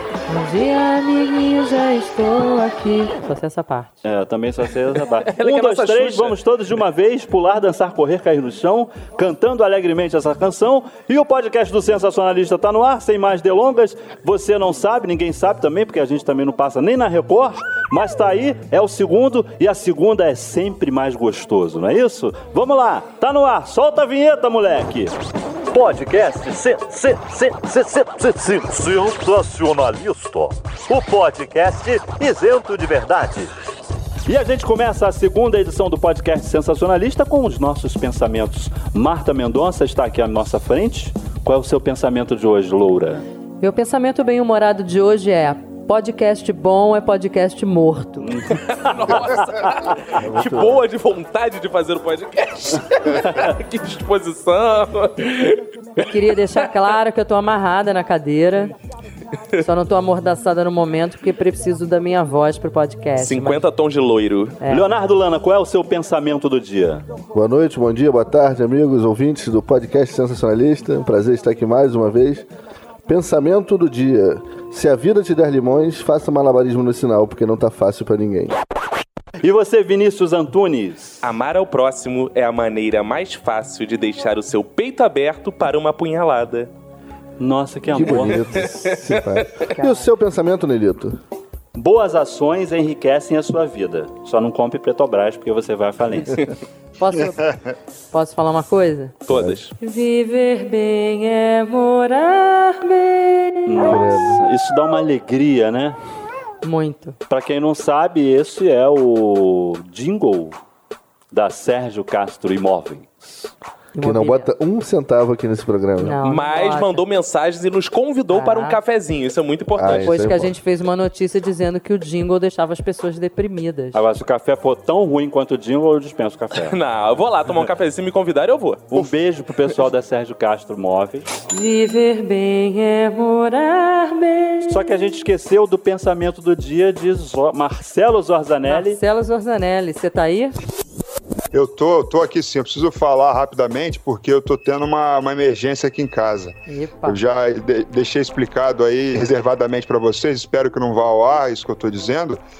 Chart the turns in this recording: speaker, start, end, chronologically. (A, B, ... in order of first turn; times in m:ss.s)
0:00.3-0:04.0 A
0:04.0-0:25.2 B
0:05.2-0:06.4 C
0:25.7-0:33.5 B
0:34.2-0:43.2 B
0:43.6-0:48.3 A
0:48.2-0:49.8 B
0:48.5-0:56.1 C
0:50.2-0:50.8 D
0:56.0-0:58.7 A
0:59.6-1:03.6 A
1:03.2-1:04.6 C
1:04.6-1:04.9 A
1:04.6-1:07.1 B
1:07.3-1:12.4 D
1:13.1-1:18.6 D
1:19.4-1:21.2 B
1:21.2-1:26.7 C
1:27.4-1:28.6 B
1:27.9-1:31.2 D
1:28.5-1:29.6 C
1:29.7-1:30.1 A
1:31.7-1:36.4 B
1:37.0-1:37.5 A
1:37.1-1:37.7 E
1:38.1-1:39.2 A
1:39.2-1:39.7 C
1:39.3-1:39.6 D
1:39.8-1:43.9 A
1:43.6-1:46.0 B
1:43.8-1:44.4 D
1:46.6-1:47.2 A
1:47.3-1:50.6 B
1:51.3-1:53.5 B
1:53.9-1:54.5 A
1:54.0-1:56.2 D
1:56.0-1:57.0 A
1:56.2-2:00.2 C
1:58.3-1:58.8 A
1:59.8-2:00.5 D
2:00.0-2:04.0 A
2:03.9-2:06.8 B
2:06.5-2:09.1 C
2:08.9-2:11.3 B
2:11.5-2:14.8 A
2:14.7-2:19.0 B
2:18.7-2:20.5 A
2:21.5-2:32.4 E
2:26.7-2:27.2 A